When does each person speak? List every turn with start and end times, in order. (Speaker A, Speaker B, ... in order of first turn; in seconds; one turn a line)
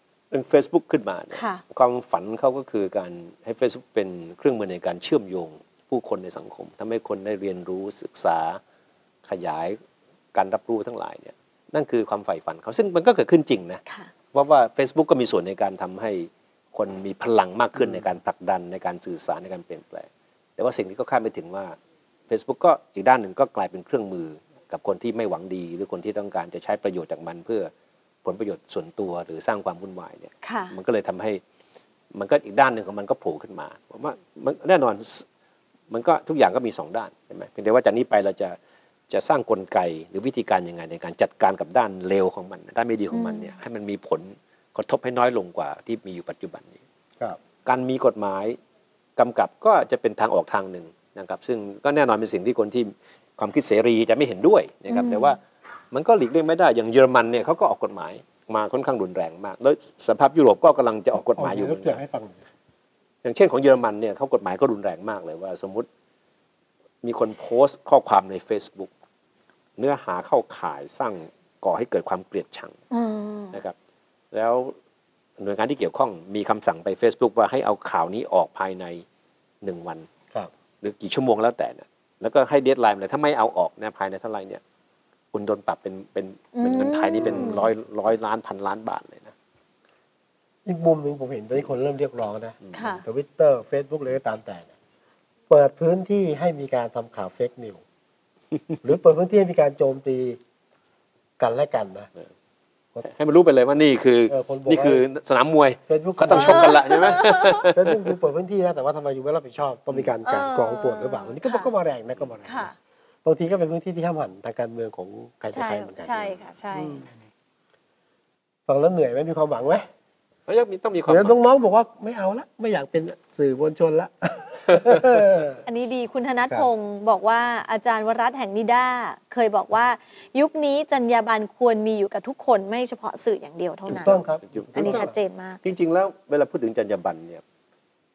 Speaker A: 0.3-8.6
Speaker B: 1.3-1.6
Speaker A: 9.2-9.8
Speaker A: 10.3-13.8
Speaker B: 13.9-14.1
Speaker A: 14.3-21.8
Speaker A: 22.3-27.7
Speaker A: 28.2-31.4
Speaker B: 30.4-30.8
Speaker A: 32.1-35.3
Speaker A: 35.9-38.6
Speaker A: 39.1-46.8
Speaker B: 43.1-43.5
Speaker A: 47.6-48.6
Speaker A: 49.2-55.4
Speaker B: 54.9-55.4
Speaker A: 55.9-62.0
Speaker C: 61.4-62.4
Speaker A: 63.2-65.9
Speaker A: 67.0-68.9
Speaker A: 69.8-72.8
Speaker B: 72.9-73.6
Speaker A: 74.3-74.8
Speaker A: 75.4-79.0
Speaker A: 79.6-80.1
Speaker A: 80.8-84.6
Speaker A: 85.3-89.3
Speaker B: 86.5-87.7
Speaker C: 87.2-87.7
Speaker C: 90.7-94.7
Speaker B: 92.7-93.0
Speaker C: 95.5-97.8
Speaker C: 98.8-100.4
Speaker C: 101.4-102.1
Speaker A: 103.0-108.0
Speaker C: 104.3-105.0
Speaker C: 105.9-106.9
Speaker B: 106.3-107.7
Speaker C: 107.6-112.7
Speaker B: 110.2-111.7
Speaker B: 112.5-112.8
Speaker C: 113.2-116.4
Speaker B: 115.5-117.0
Speaker A: 116.8-117.0
Speaker C: 118.7-119.9
Speaker A: 120.5-121.4
Speaker C: 121.1-125.7
Speaker B: 125.7-134.2
Speaker C: 133.9-135.2
Speaker A: 134.5-135.1
Speaker B: 134.8-135.6
Speaker A: 135.6-137.4